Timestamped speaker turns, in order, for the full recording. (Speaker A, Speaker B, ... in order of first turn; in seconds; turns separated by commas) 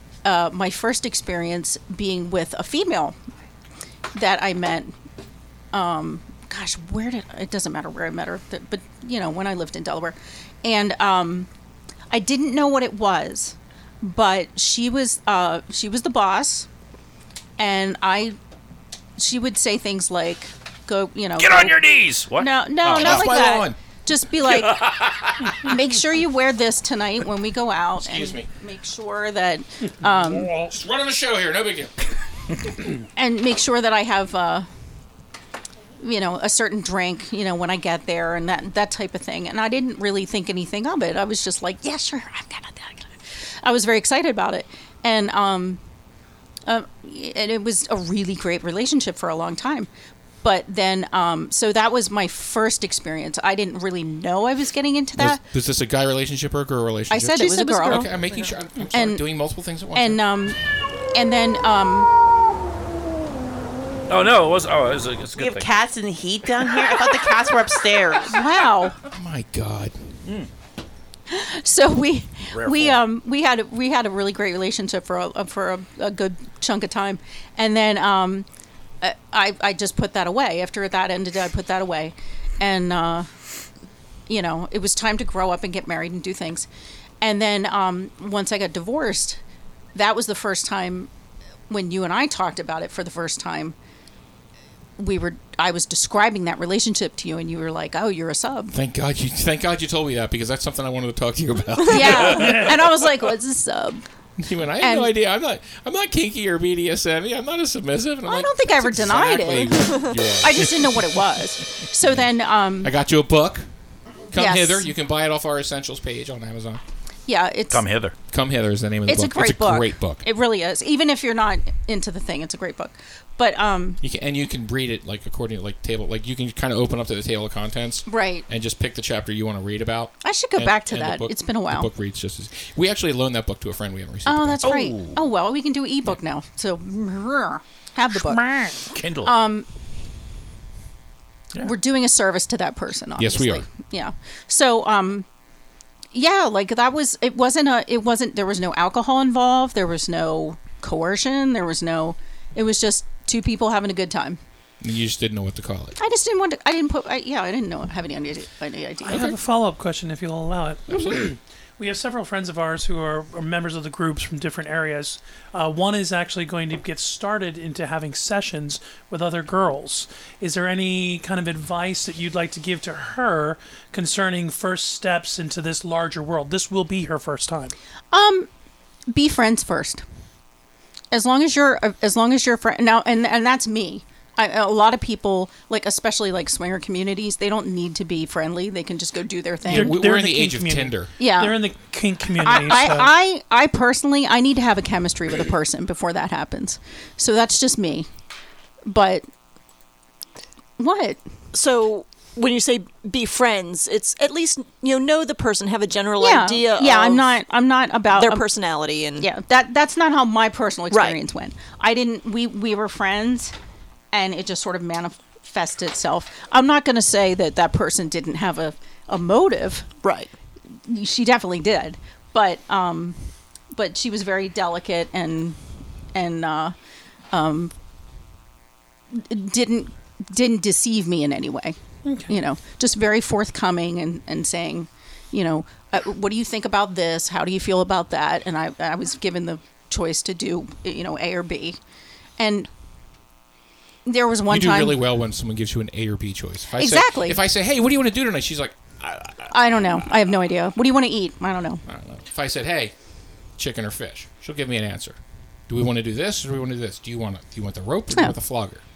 Speaker A: 0.2-3.1, Speaker A: 4.1-4.9, Speaker A: 5.7-11.5, Speaker A: 12.1-16.7, Speaker A: 17.6-18.4, Speaker A: 19.2-25.0, Speaker B: 21.4-23.2, Speaker C: 22.8-23.8, Speaker B: 24.5-25.5, Speaker A: 25.5-30.5, Speaker C: 28.0-28.5, Speaker C: 30.6-31.9, Speaker A: 33.1-34.7, Speaker A: 36.0-45.8, Speaker A: 46.7-49.9, Speaker A: 50.4-55.4, Speaker C: 55.2-60.2, Speaker A: 57.1-58.1, Speaker D: 57.4-58.1, Speaker A: 58.9-59.2, Speaker A: 59.9-60.6, Speaker A: 61.1-62.1, Speaker B: 64.1-65.7, Speaker E: 65.3-68.3, Speaker A: 68.3-69.0, Speaker C: 69.1-70.0, Speaker A: 71.3-78.5, Speaker B: 72.5-73.0, Speaker A: 79.0-83.3, Speaker A: 84.3-86.7, Speaker A: 87.2-89.4, Speaker A: 89.9-91.1, Speaker A: 91.7-93.8, Speaker A: 95.0-98.7, Speaker C: 98.7-102.7, Speaker A: 101.9-104.0, Speaker F: 102.3-102.8, Speaker C: 104.4-110.7, Speaker A: 104.8-105.1, Speaker A: 108.2-112.9, Speaker C: 112.8-113.7, Speaker C: 114.3-116.8, Speaker A: 114.3-114.9, Speaker A: 117.3-117.8, Speaker B: 117.7-118.1, Speaker C: 118.3-120.2, Speaker A: 119.0-124.0, Speaker C: 124.0-134.7, Speaker A: 128.1-128.4, Speaker A: 130.2-131.9, Speaker A: 134.2-138.5, Speaker B: 134.6-135.2, Speaker F: 138.3-138.8, Speaker B: 138.9-139.3, Speaker A: 139.2-139.7, Speaker A: 141.6-145.2, Speaker C: 143.2-143.7, Speaker A: 146.1-154.4, Speaker C: 154.8-156.0, Speaker A: 156.0-159.3, Speaker F: 159.0-177.7, Speaker C: 159.1-159.3, Speaker C: 160.9-161.3, Speaker A: 178.1-178.5, Speaker A: 179.1-180.0, Speaker A: 181.1-190.0, Speaker F: 189.7-193.1, Speaker C: 189.7-191.1, Speaker A: 191.2-191.6, Speaker A: 192.4-198.1, Speaker A: 198.8-199.2, Speaker A: 200.8-201.2, Speaker D: 201.5-207.4, Speaker A: 206.2-208.4, Speaker D: 208.1-209.3, Speaker A: 209.2-213.5, Speaker D: 210.9-211.2, Speaker A: 214.1-219.9, Speaker D: 220.0-220.3, Speaker A: 220.8-223.2, Speaker A: 223.7-225.6, Speaker A: 226.1-226.7, Speaker A: 227.3-227.7, Speaker A: 229.1-241.8, Speaker F: 232.1-232.3, Speaker A: 242.4-242.7, Speaker A: 244.1-245.0, Speaker C: 244.5-249.5, Speaker A: 246.8-247.4, Speaker A: 249.5-251.8, Speaker C: 251.9-252.9, Speaker C: 253.6-258.8